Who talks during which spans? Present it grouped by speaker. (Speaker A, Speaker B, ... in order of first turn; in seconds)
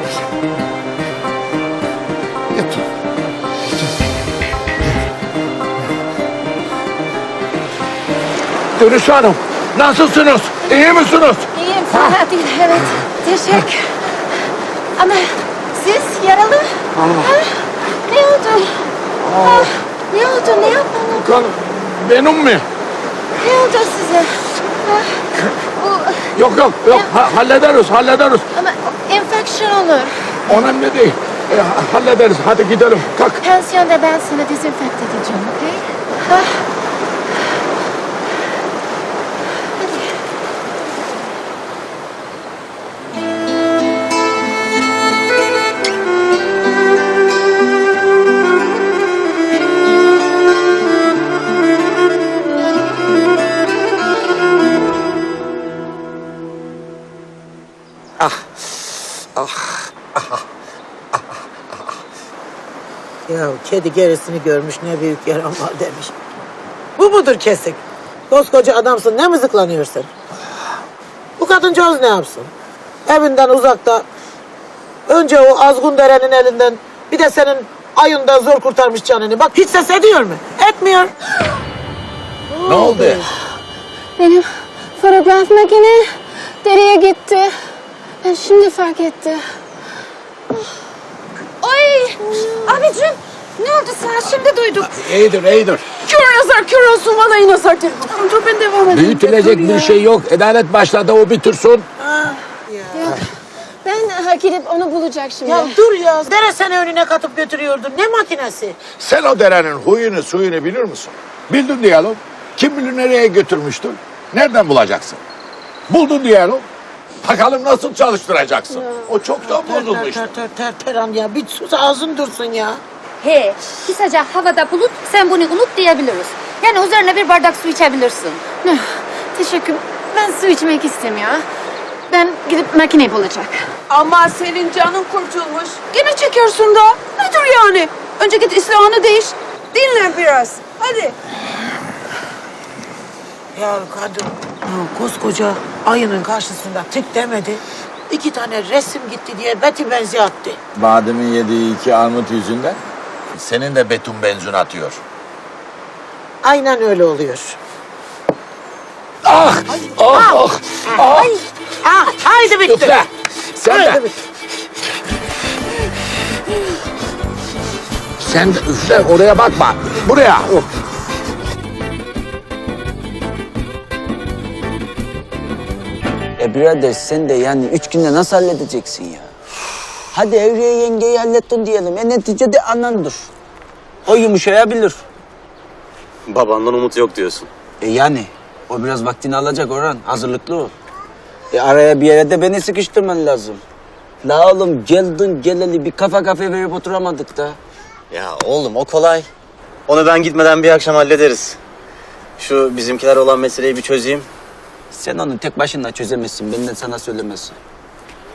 Speaker A: 2.5-2.8, 8.8-12.2, 16.9-17.3, 19.2-19.7, 20.6-22.6, 26.3-28.5, 30.5-33.4, 82.6-83.3, 94.8-96.0, 98.9-101.9, 109.0-115.2, 115.9-116.7, 117.2-120.3, 150.7-152.8, 153.3-155.0, 159.2-161.4, 162.6-163.1, 163.6-164.0, 168.2-170.6
Speaker B: 11.5-13.9, 15.0-21.3, 23.4-25.2, 25.8-26.3, 28.6-30.1, 33.4-36.6, 84.2-87.5, 88.2-89.4, 93.0-94.6, 96.0-99.9, 102.9-103.2, 103.8-105.7, 128.6-131.4, 132.1-133.7
Speaker C: 63.3-66.1, 67.0-70.1, 71.4-72.5, 73.1-74.0, 75.1-81.1, 82.5-83.3, 102.0-103.1, 105.4-108.8, 119.5-122.8, 143.5-150.6, 156.4-157.6, 160.1-163.0, 163.6-164.1
Speaker D: 96.8-97.2, 133.9-141.1
Speaker E: 123.2-128.5
Speaker F: 176.4-179.3, 180.1-183.3, 184.1-185.0, 187.8-190.7, 191.5-193.6, 194.2-197.6, 204.9-207.6
Speaker G: 186.3-187.5, 198.1-199.3, 199.9-201.6, 202.4-204.3